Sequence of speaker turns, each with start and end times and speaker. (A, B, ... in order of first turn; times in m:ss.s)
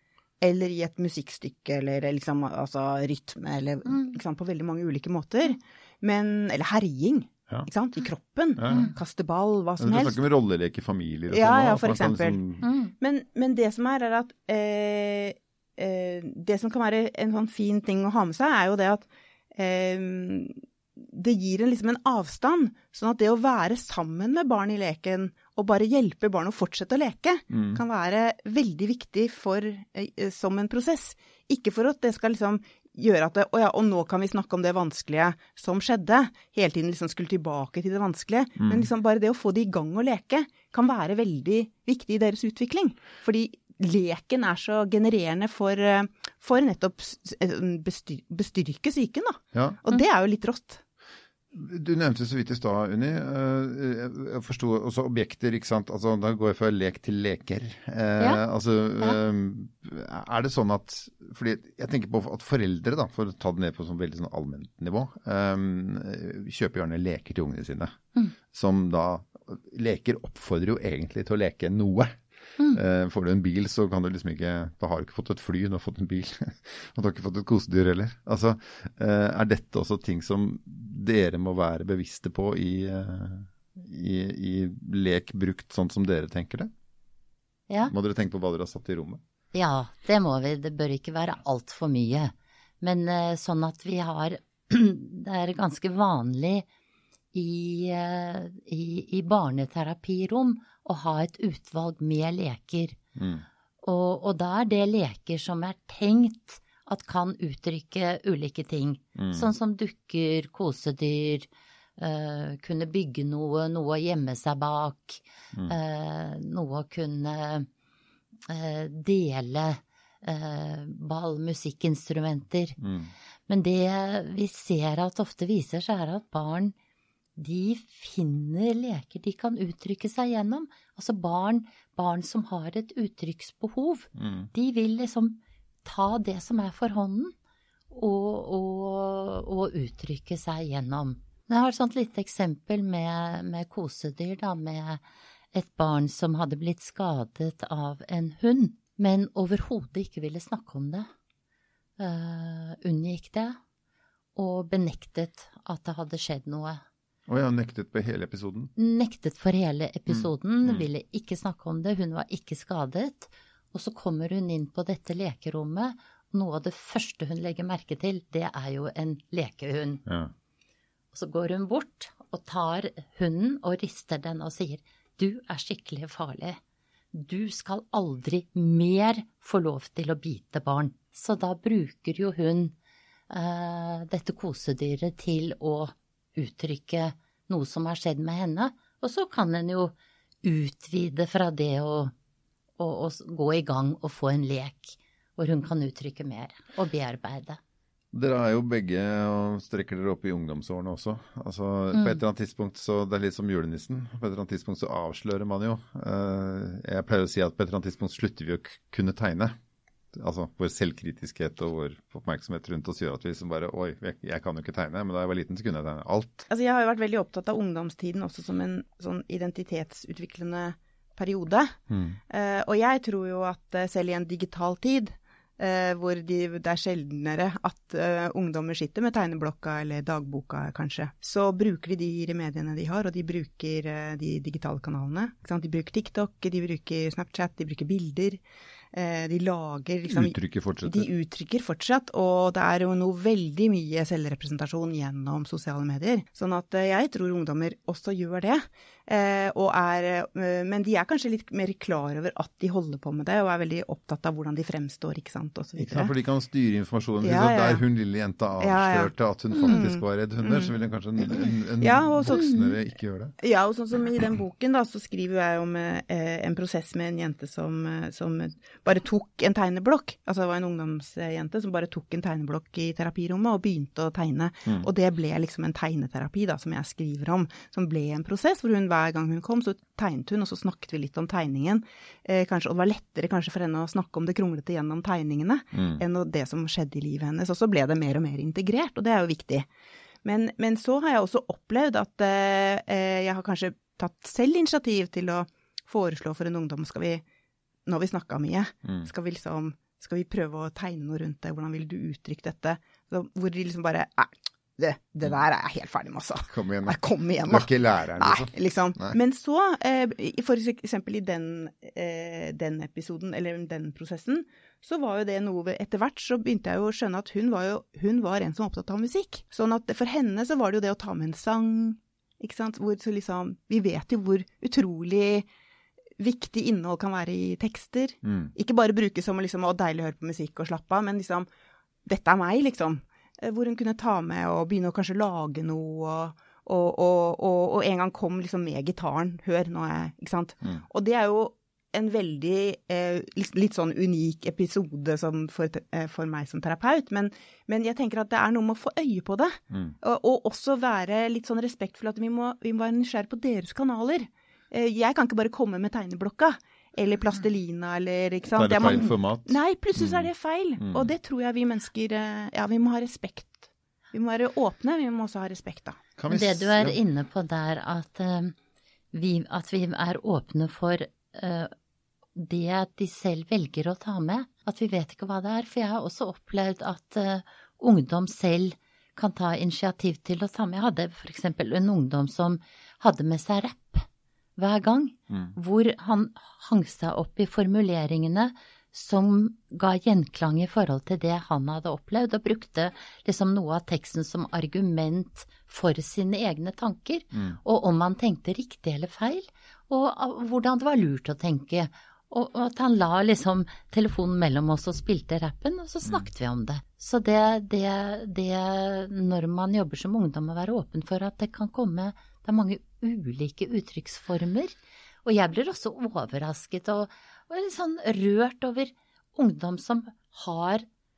0:00.4-0:10.2 A
0:03.8-0:04.2 B
0:08.6-0:08.9 C
0:08.7-0:08.9 B
0:09.8-0:12.6 C
0:11.3-0:12.4 A
0:12.6-0:12.9 B
0:13.0-0:50.8 A
0:27.5-0:27.8 C
0:38.6-0:38.9 C
0:51.5-1:08.0 C
1:08.5-1:26.7 C
1:27.9-1:29.2 C
1:29.5-1:36.6 B
1:37.3-1:43.0 B
1:43.2-1:43.4 C
1:43.8-1:51.5 B
1:49.2-1:49.5 C
1:52.0-1:57.7 B
1:58.5-2:02.8 B
2:02.8-2:03.1 C
2:03.5-2:06.7 B
2:07.4-2:17.3 B
2:14.1-2:14.5 C
2:17.9-2:25.0 B
2:25.5-2:31.1 B
2:32.0-2:33.6 B
2:34.3-2:36.8 B
2:37.3-2:38.7 C
2:38.8-2:50.0 B
2:40.1-2:40.8 C
2:50.0-2:50.3 C
2:51.1-2:56.6 B
2:57.1-3:02.7 B
3:03.3-3:12.1 B
3:12.8-3:17.6 B
3:18.1-3:29.6 C
3:21.9-3:22.2 B
3:30.1-3:36.4 C
3:36.5-3:41.8 A
3:41.9-3:42.2 C
3:42.3-3:58.4 A
3:58.9-4:16.1 A
4:00.1-4:01.1 C
4:15.8-4:23.4 C
4:17.2-4:17.8 A
4:18.6-4:22.6 A
4:22.3-4:22.6 B
4:23.4-4:49.7 A
4:45.7-4:46.0 C
4:50.2-4:57.2 A
4:57.8-5:25.5 A
5:06.5-5:09.2 C
5:26.2-5:31.5 A
5:28.2-5:28.5 C
5:32.0-6:06.0 A
5:58.5-6:01.1 C
6:06.2-6:07.0 C
6:06.3-6:08.5 B
6:09.1-6:11.7 B
6:12.3-7:00.8 B
6:25.3-6:25.6 C
6:37.3-6:37.6 C